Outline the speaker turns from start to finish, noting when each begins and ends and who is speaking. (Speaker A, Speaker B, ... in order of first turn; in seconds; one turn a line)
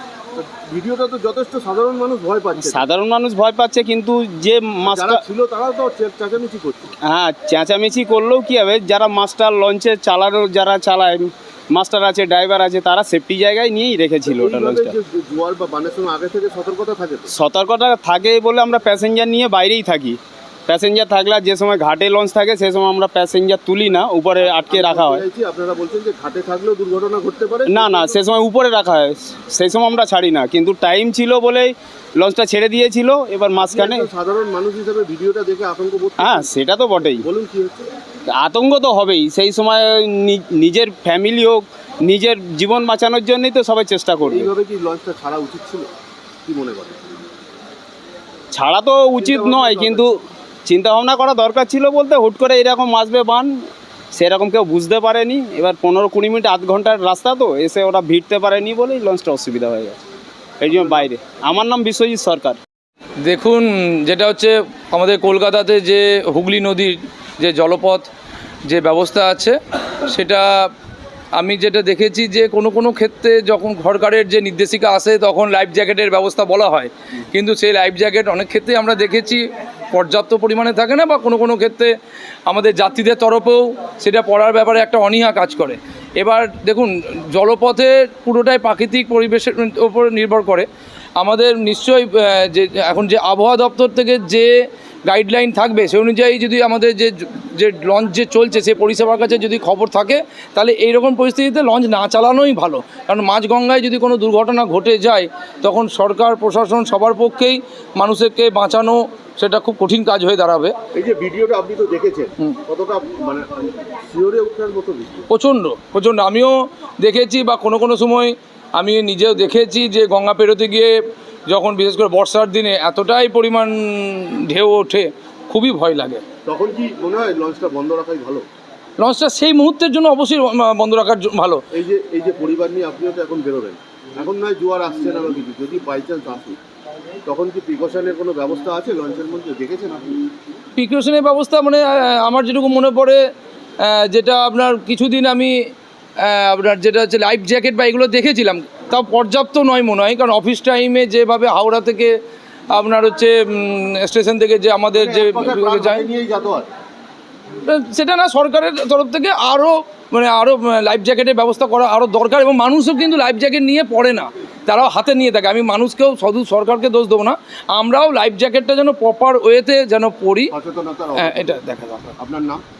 Speaker A: 0.4-2.8
Speaker B: 2.6-5.2
Speaker A: 4.9-6.9
Speaker B: 7.0-14.9
Speaker A: 14.2-17.3
Speaker B: 17.3-25.2
Speaker A: 24.4-28.2
Speaker B: 27.7-34.1
Speaker A: 33.6-36.5
Speaker B: 36.2-37.2
Speaker A: 37.2-37.9
Speaker B: 38.3-44.5
Speaker A: 44.3-45.9
Speaker A: 46.4-47.0
Speaker B: 48.5-60.0
Speaker A: 49.2-50.1
Speaker B: 60.6-62.6
Speaker C: 63.2-68.1
Speaker C: 68.7-69.6
Speaker C: 70.1-70.7
Speaker C: 71.3-81.9
Speaker C: 82.5-90.7
Speaker C: 91.2-94.5
Speaker C: 95.1-110.7
Speaker A: 110.9-115.2
Speaker C: 115.3-120.9
Speaker C: 121.5-126.2
Speaker A: 126.5-128.4
Speaker C: 129.0-131.6
Speaker A: 131.7-136.6
Speaker A: 137.2-140.2
Speaker C: 140.8-143.2
Speaker C: 143.8-145.5
Speaker C: 146.2-152.2
Speaker C: 152.7-156.1
Speaker A: 154.9-156.7
Speaker C: 157.7-170.5
Speaker A: 170.5-171.6
Speaker C: 171.2-172.1
Speaker A: 172.1-172.6